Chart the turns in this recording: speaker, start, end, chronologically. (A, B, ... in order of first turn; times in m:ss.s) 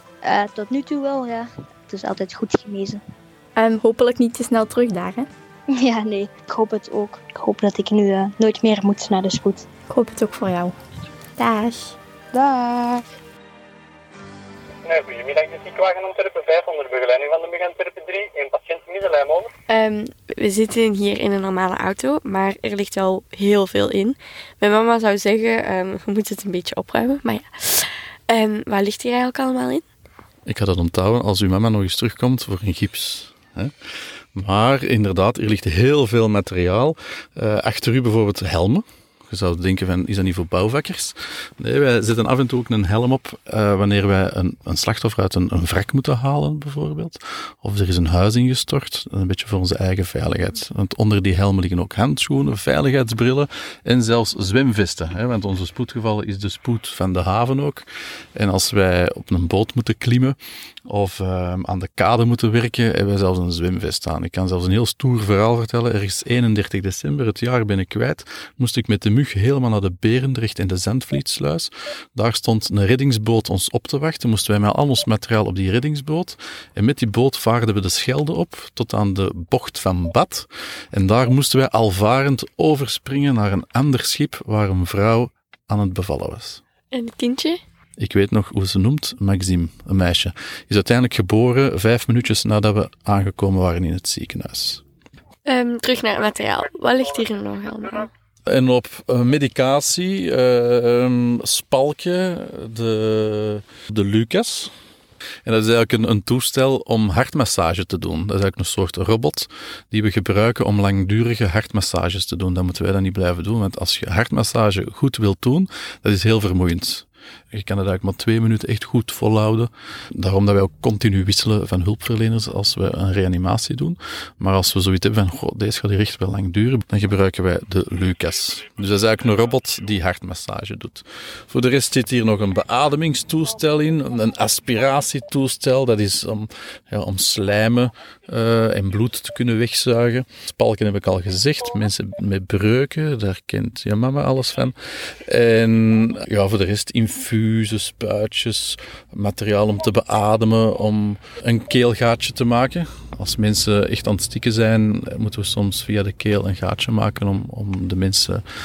0:00.2-0:03.0 A
0:03.6-0:05.3 B
0:05.7-0:09.6 A
0:09.9-0:10.8 B
0:11.4-0:12.0 B
0:12.3-0:13.0 A
0:14.8-0:19.5 C
0:19.7-0:29.8 D
0:30.4-0:33.7 E
0:34.3-1:26.6 E
1:26.9-1:27.6 D
1:28.0-1:34.8 E
1:35.4-1:38.1 D
1:38.5-1:44.7 E
1:45.4-2:38.4 E